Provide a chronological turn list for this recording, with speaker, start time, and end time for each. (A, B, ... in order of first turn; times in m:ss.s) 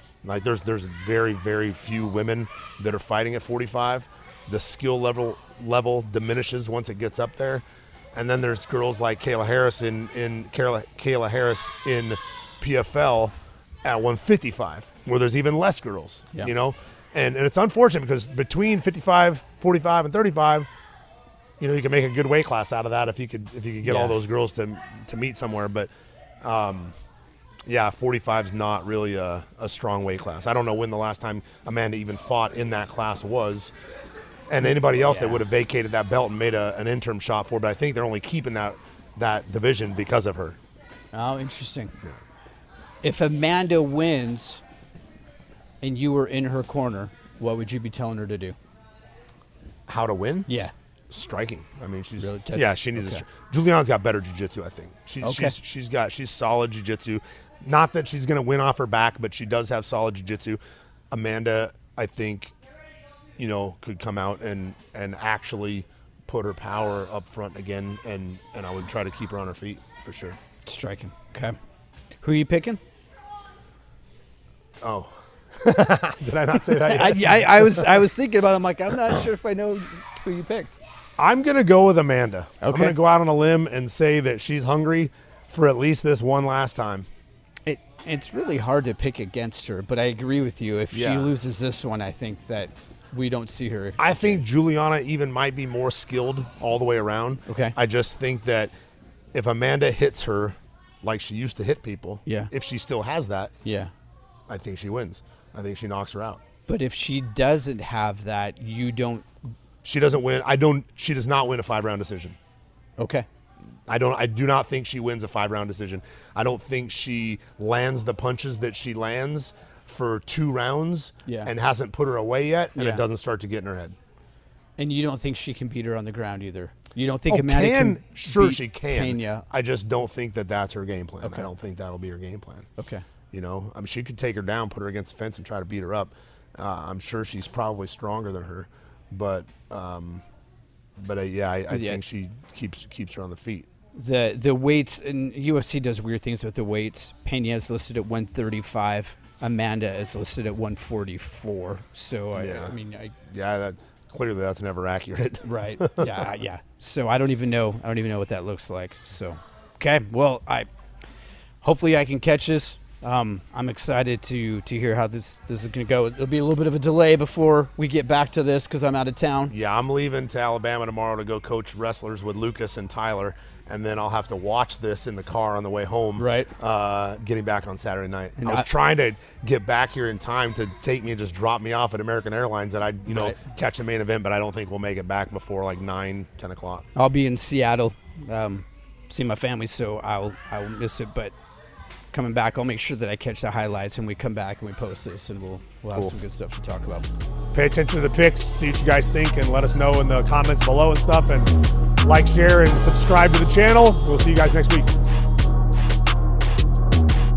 0:00.2-0:20.7 A
0:21.6-0:25.9 A
0:23.8-0:24.2 B
0:26.4-0:26.9 A
0:27.7-0:33.7 A
0:34.5-0:40.6 A
0:34.6-0:35.4 B
0:41.1-0:41.9 B
0:43.0-0:44.6 B
0:45.8-0:48.6 B
0:49.9-0:50.5 A
0:50.5-0:50.7 B
0:51.1-1:00.6 A
0:52.2-0:53.2 B
0:55.2-0:55.6 B
1:01.1-1:02.5 A
1:03.4-1:10.4 A
1:10.7-1:11.6 B
1:12.2-1:12.8 B
1:14.8-1:18.0 A
1:16.5-1:20.8 B
1:21.2-1:27.1 A
1:22.6-1:23.0 B
1:27.7-1:34.4 B
1:30.9-1:31.3 A
1:34.0-1:38.7 A
1:37.5-1:37.8 B
1:39.3-1:43.5 A
1:42.3-1:42.5 B
1:43.6-1:43.9 B
1:44.5-1:46.4 A
1:46.7-1:49.3 B
1:49.8-1:52.4 A
1:53.0-1:53.3 B
1:53.9-2:04.0 A
2:02.8-2:03.0 B
2:04.8-2:09.4 B
2:07.3-2:12.7 A
2:11.2-2:11.5 B
2:12.8-2:13.1 B
2:13.3-2:20.2 A
2:21.0-2:23.7 A
2:21.7-2:22.0 B
2:23.9-2:33.2 B
2:32.4-2:32.8 A
2:33.3-2:36.4 A
2:35.4-2:40.7 B
2:41.6-2:49.5 B
2:49.5-3:06.9 A
2:56.2-2:56.5 B
2:58.4-2:58.7 B
3:03.1-3:03.4 B
3:07.0-3:11.3 B
3:12.1-3:17.1 B
3:17.5-3:21.5 A
3:22.0-3:24.9 A